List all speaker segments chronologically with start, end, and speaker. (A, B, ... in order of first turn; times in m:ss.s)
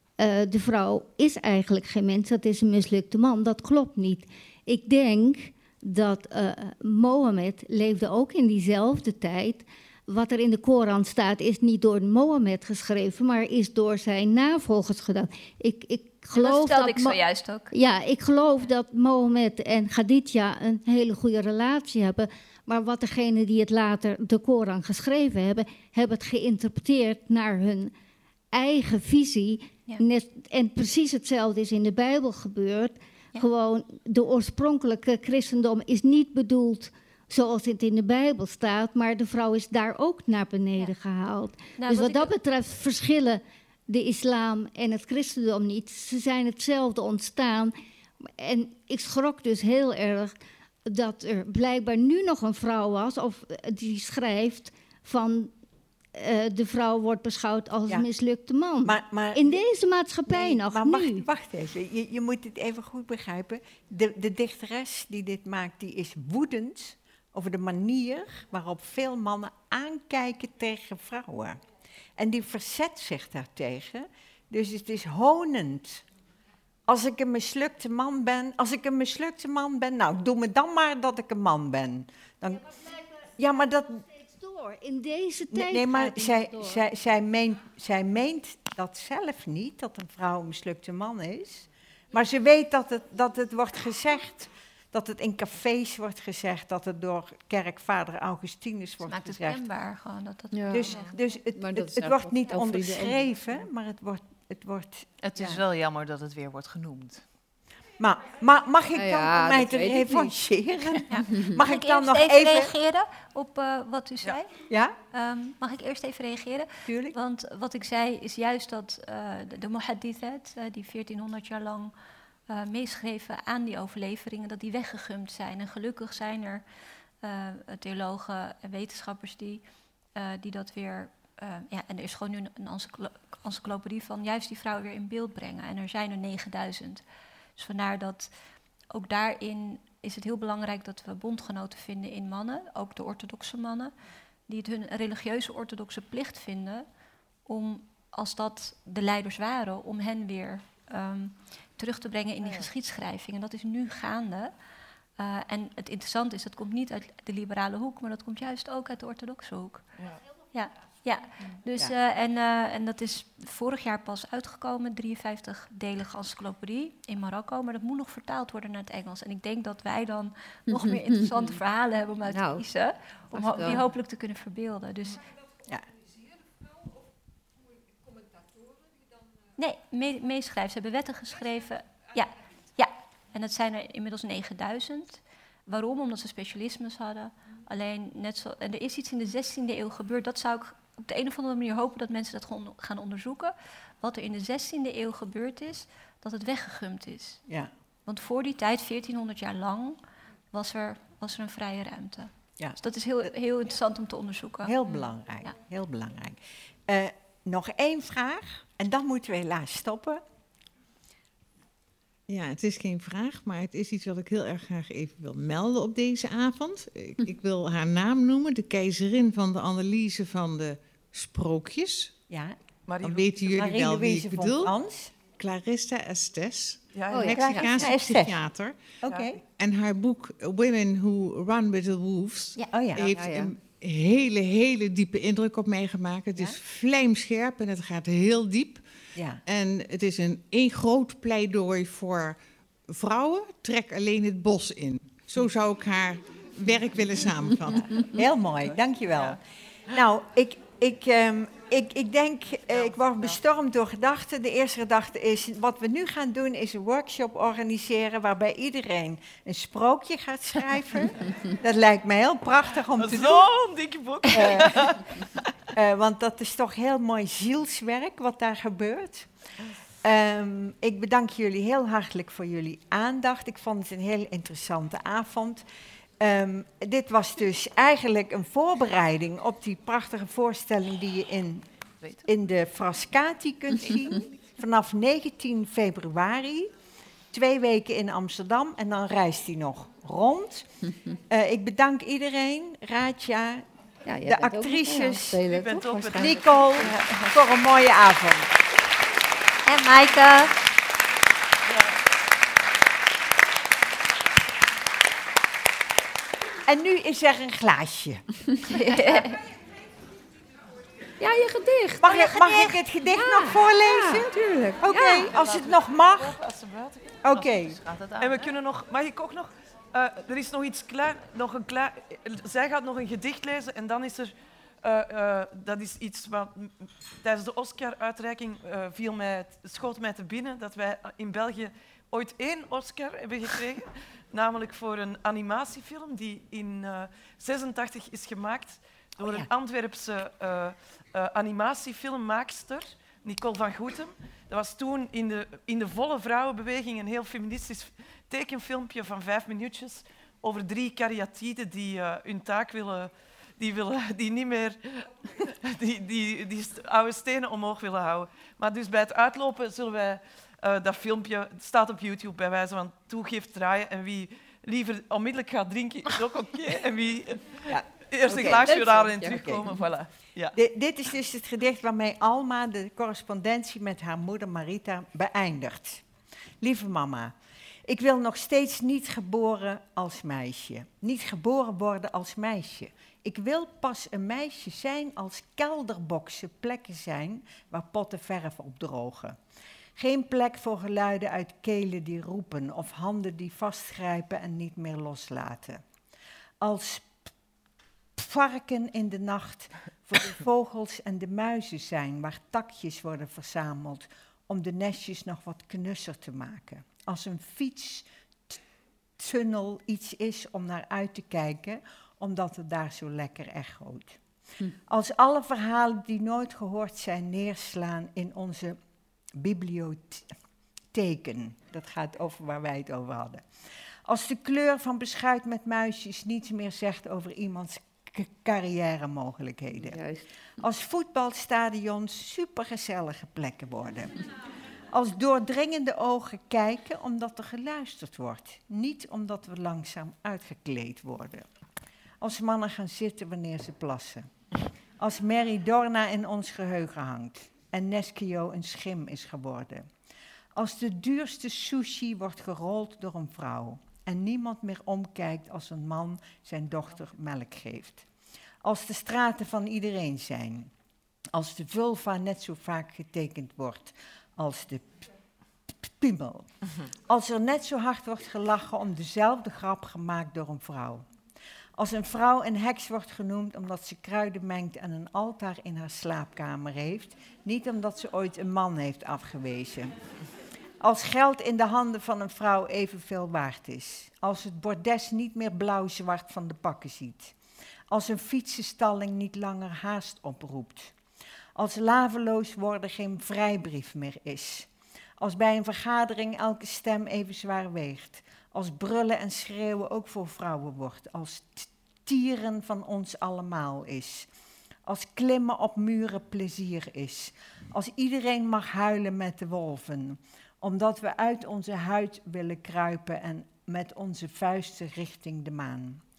0:00.2-0:27.9 A
0:16.3-0:17.7 B
0:28.5-0:50.3 A
0:41.8-0:42.3 B
0:50.9-0:55.5 A
0:56.1-1:01.3 A
0:58.8-0:59.6 C
1:00.3-1:11.6 C
1:12.2-1:16.0 C
1:16.9-1:22.7 C
1:22.8-1:23.0 A
1:23.4-1:24.0 C
1:24.1-1:26.8 A
1:25.5-1:39.6 C
1:39.0-1:41.2 B
1:40.5-1:40.9 D
1:40.7-1:45.6 C
1:41.5-1:43.6 D
1:45.2-1:47.2 E
1:48.0-1:52.7 C
1:48.9-1:50.4 D
1:50.9-1:51.6 D
1:51.1-1:54.6 B
1:54.7-1:55.0 C
1:55.1-2:01.9 B
1:56.8-1:57.2 C
2:02.5-2:06.6 B
2:07.2-2:09.6 B
2:10.1-2:17.0 B
2:17.6-2:18.3 B
2:18.9-2:23.9 B
2:24.5-2:26.8 B
2:27.4-2:34.5 B
2:35.2-2:39.9 B
2:40.5-2:55.3 B
2:50.7-2:51.5 D
2:52.3-2:52.6 D
2:53.3-2:53.8 D
2:59.6-3:17.4 B
3:18.0-3:20.0 B
3:20.5-3:24.7 B
3:22.6-3:23.3 C
3:24.6-3:30.2 C
3:32.3-3:42.2 F
3:42.3-3:45.1 C
3:42.9-3:43.5 G
3:43.0-3:44.7 F
3:45.3-3:48.9 F
3:46.9-3:47.6 G
3:47.3-3:48.4 C
3:49.0-3:49.4 C
3:49.0-3:49.3 G
3:49.5-3:58.8 F
3:52.7-3:53.1 C
3:53.1-3:53.5 D
3:56.3-3:56.6 C
3:59.1-3:59.4 C
3:59.4-4:02.4 F
4:02.9-4:08.1 F
4:08.1-4:23.5 C
4:23.0-4:25.4 G
4:24.3-4:25.2 C
4:25.7-4:29.3 C
4:30.0-4:35.6 C
4:36.2-4:41.6 C
4:42.2-4:46.7 C
4:47.3-4:50.7 C
4:51.3-4:53.6 C
4:54.0-4:57.2 D
4:54.2-4:55.4 C
4:55.5-4:57.1 G
4:56.2-4:58.5 C
4:59.6-5:00.5 B
5:06.6-5:08.2 C
5:08.6-5:09.4 B
5:11.2-5:12.0 D
5:11.4-5:12.6 B
5:12.0-5:16.4 C
5:13.1-5:15.3 D
5:15.3-5:17.4 G
5:17.2-5:17.8 C
5:17.4-5:18.5 E
5:18.2-6:10.6 G
5:39.2-5:39.5 C
6:07.7-6:09.6 C
6:08.7-6:09.6 D
6:10.5-6:16.0 C
6:16.6-6:29.4 C
6:30.0-6:35.8 C
6:36.6-6:37.3 C
6:38.2-6:48.6 C
6:49.2-6:54.2 C
6:54.9-6:58.8 C
6:59.4-7:00.3 C
7:00.9-7:03.4 C
7:04.0-7:10.0 C
7:09.8-7:10.2 D
7:10.6-7:14.2 C
7:14.9-7:21.5 C
7:22.2-7:24.3 C
7:25.0-7:29.9 C
7:30.5-7:38.1 C
7:38.6-7:40.7 C
7:41.3-7:45.1 C
7:45.7-7:46.5 C
7:47.0-7:51.0 C
7:51.8-7:59.9 C
8:00.8-8:07.3 C
8:07.9-8:10.9 C
8:11.6-8:24.3 C
8:24.8-8:36.0 C